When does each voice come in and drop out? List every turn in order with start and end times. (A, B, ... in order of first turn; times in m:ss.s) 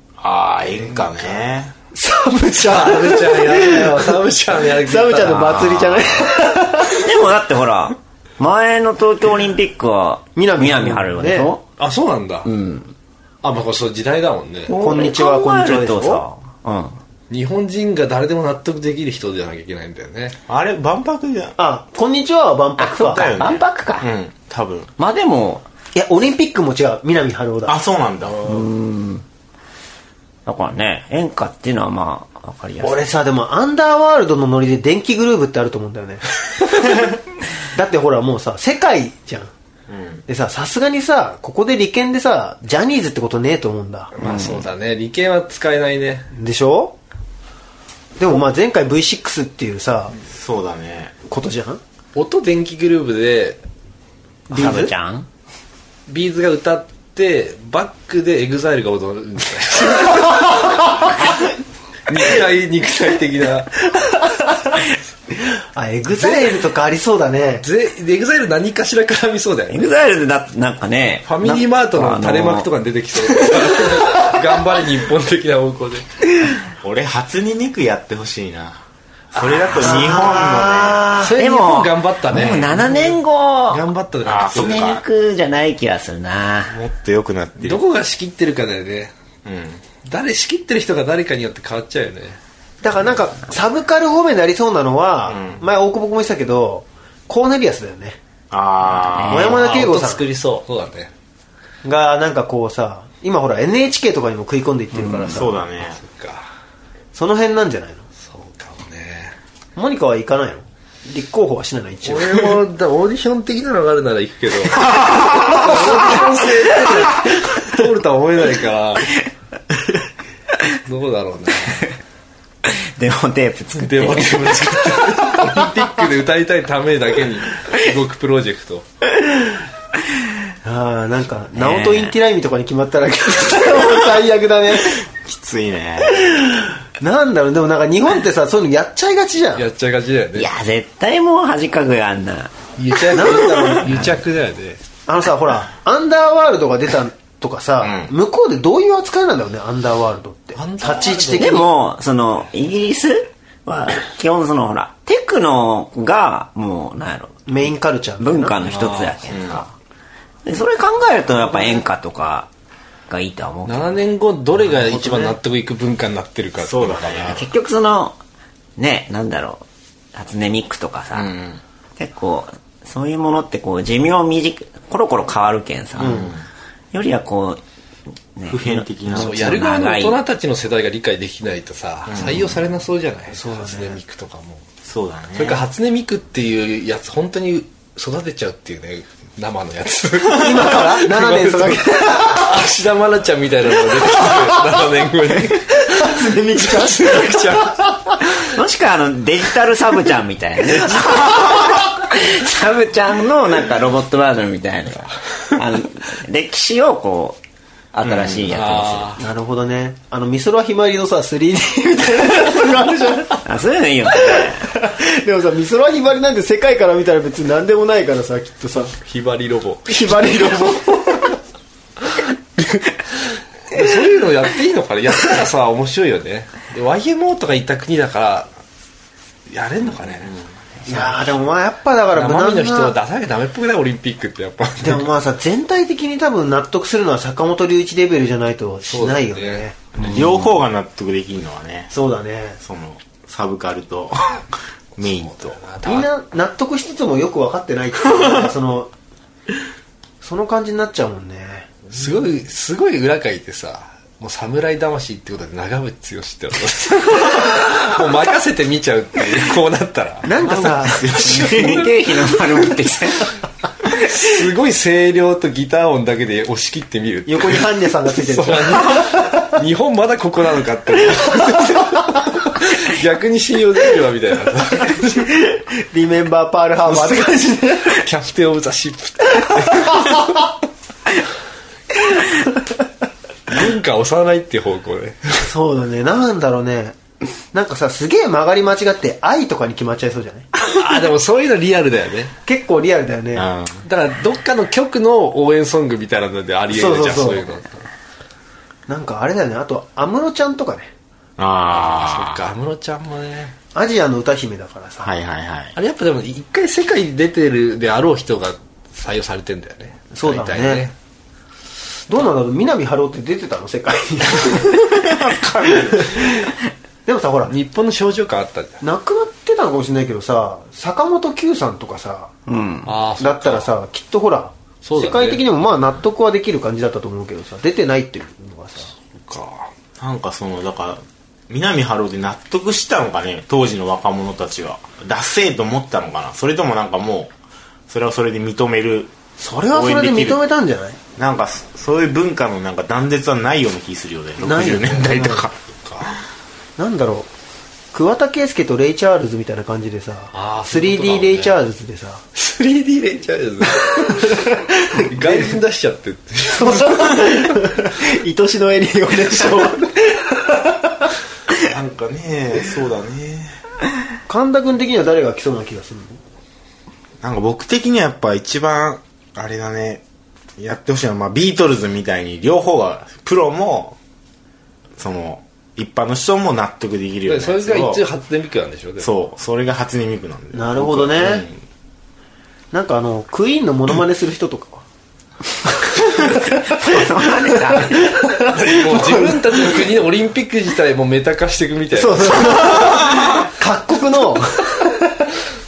0:00.2-0:01.7 A
0:01.9-0:07.0 B
0:02.6-0:06.1 C
0:06.9-0:11.6 D
0:10.4-0:11.5 B
0:11.8-0:12.5 C
0:12.4-0:12.9 D
0:13.4-0:14.7 C
0:14.7-0:17.0 D
0:14.7-0:16.2 B
0:17.3-0:20.4 C
0:20.5-0:21.6 A
0:21.6-0:23.5 B
0:22.8-0:24.1 D
0:23.1-0:24.9 A
0:25.0-0:25.6 D
0:25.9-0:27.8 B
0:27.7-0:28.4 A
0:28.4-0:29.2 D
0:30.4-0:33.0 D
0:32.8-0:36.2 B
0:37.7-0:39.5 B
0:39.9-0:40.2 A
0:40.3-0:44.1 B
0:44.1-0:46.3 C
0:44.2-0:44.6 D
0:46.3-0:46.9 B
0:48.2-0:50.1 B
0:50.3-0:51.1 A
0:51.3-0:51.8 B
0:52.1-0:53.6 C
0:54.5-0:54.9 B
0:54.5-0:55.3 D
0:56.1-1:01.0 C
1:02.1-1:03.8 C
1:05.7-1:07.6 B
1:06.2-1:06.5 C
1:07.6-1:09.9 C
1:09.7-1:12.7 D
1:11.2-1:16.0 C
1:16.8-1:18.8 A
1:19.3-1:20.4 C
1:19.3-1:21.1 A
1:19.8-1:21.3 B
1:21.2-1:23.2 C
1:21.3-1:23.8 D
1:23.7-1:25.0 C
1:24.2-1:25.0 A
1:24.5-1:26.8 D
1:26.7-1:27.8 A
1:27.6-1:29.1 C
1:29.4-1:29.8 A
1:30.0-1:32.4 C
1:32.8-1:38.2 B
1:35.3-1:35.6 A
1:38.5-1:39.5 A
1:39.0-1:39.5 D
1:39.2-1:41.1 C
1:39.3-1:40.2 B
1:41.8-1:45.6 B
1:45.3-1:46.0 A
1:45.8-1:46.4 C
1:47.1-1:48.0 B
1:48.2-1:49.3 C
1:49.8-1:52.6 B
1:52.0-1:59.1 C
1:54.8-1:55.6 A
2:00.8-2:01.9 C
2:02.6-2:05.1 D
2:03.8-2:08.8 C
2:10.6-2:15.0 B
2:11.5-2:12.1 D
2:15.2-2:16.3 A
2:16.2-2:19.6 B
2:19.6-2:20.5 C
2:20.3-2:22.5 D
2:22.8-2:24.8 C
2:23.1-2:24.0 B
2:25.1-2:31.7 B
2:27.8-2:28.1 A
2:30.5-2:31.6 C
2:31.4-2:37.4 D
2:37.5-2:38.6 B
2:38.2-2:39.7 D
2:38.7-2:39.2 C
2:39.3-2:39.6 A
2:40.4-2:42.5 D
2:43.1-2:44.0 D
2:43.6-2:47.4 C
2:44.7-2:45.3 B
2:46.6-2:47.4 A
2:47.3-2:48.2 D
2:48.8-2:51.3 D
2:51.1-2:51.6 A
2:52.0-2:56.3 D
2:56.0-2:56.4 A
2:56.0-2:56.3 B
2:56.9-2:57.6 D
2:58.4-3:00.2 D
2:58.5-2:59.5 A
2:59.1-3:04.6 C
3:02.1-3:02.5 A
3:03.3-3:04.0 B
3:04.8-3:05.6 A
3:05.3-3:17.9 C
3:10.4-3:12.6 B
3:15.7-3:18.0 B
3:18.5-3:27.4 D
3:27.9-3:29.2 D
3:28.0-3:28.5 A
3:28.5-3:29.2 C
3:29.2-3:33.4 B
3:33.4-3:34.6 D
3:34.3-3:38.9 B
3:38.8-3:40.8 C
3:39.9-3:41.3 B
3:43.7-3:48.5 C
3:49.5-3:50.3 C
3:50.1-3:50.5 A
3:50.9-3:52.9 B
3:52.1-3:55.1 C
3:54.8-3:59.8 B
3:58.8-4:00.3 C
4:00.0-4:01.9 A
4:01.9-4:02.6 B
4:02.6-4:04.4 A
4:05.0-4:05.6 A
4:05.0-4:06.1 C
4:05.8-4:08.9 B
4:10.2-4:11.7 B
4:11.9-4:21.8 C
4:20.2-4:21.3 B
4:20.4-4:21.8 A
4:21.2-4:23.3 D
4:24.0-4:35.3 C
4:27.3-4:29.2 B
4:35.9-4:38.0 B
4:38.0-4:40.3 C
4:39.8-4:40.1 B
4:43.5-4:45.4 C
4:45.4-4:47.0 B
4:47.5-4:50.5 B
4:50.6-4:52.3 C
4:52.4-4:53.4 B
4:53.4-4:53.8 A
4:53.8-4:57.8 C
4:56.7-4:57.4 B
4:58.9-5:00.9 B
5:01.4-5:02.4 A
5:01.7-5:03.5 C
5:03.7-5:05.1 B
5:05.0-5:05.7 A
5:05.7-5:10.9 C
5:10.1-5:10.9 B
5:12.1-5:14.9 B
5:14.9-5:16.4 A
5:17.0-5:17.5 B
5:17.5-5:18.8 C
5:18.8-5:22.3 B
5:22.5-5:22.9 D
5:22.8-5:23.7 C
5:23.2-5:28.9 B
5:24.8-5:25.4 C
5:29.2-5:29.7 C
5:30.0-5:37.3 A
5:37.9-5:39.1 A
5:39.4-5:41.0 B
5:39.7-5:40.4 A
5:41.2-5:45.6 A
5:44.4-5:45.4 B
5:45.8-5:46.1 C
5:46.8-5:47.3 B
5:47.9-5:52.2 B
5:50.3-5:51.5 C
5:52.3-5:57.4 C
5:54.1-5:55.5 B
5:56.5-6:01.1 B
6:01.6-6:03.6 A
6:04.3-6:06.2 B
6:07.2-6:10.0 A
6:10.6-6:14.0 A
6:15.0-6:18.0 A
6:17.2-6:19.1 C
6:19.0-6:21.6 A
6:20.5-6:21.5 B
6:22.7-6:24.8 B
6:26.2-6:26.8 B
6:26.5-6:28.1 D
6:27.7-6:29.8 B
6:28.5-6:32.8 C
6:31.9-6:35.2 B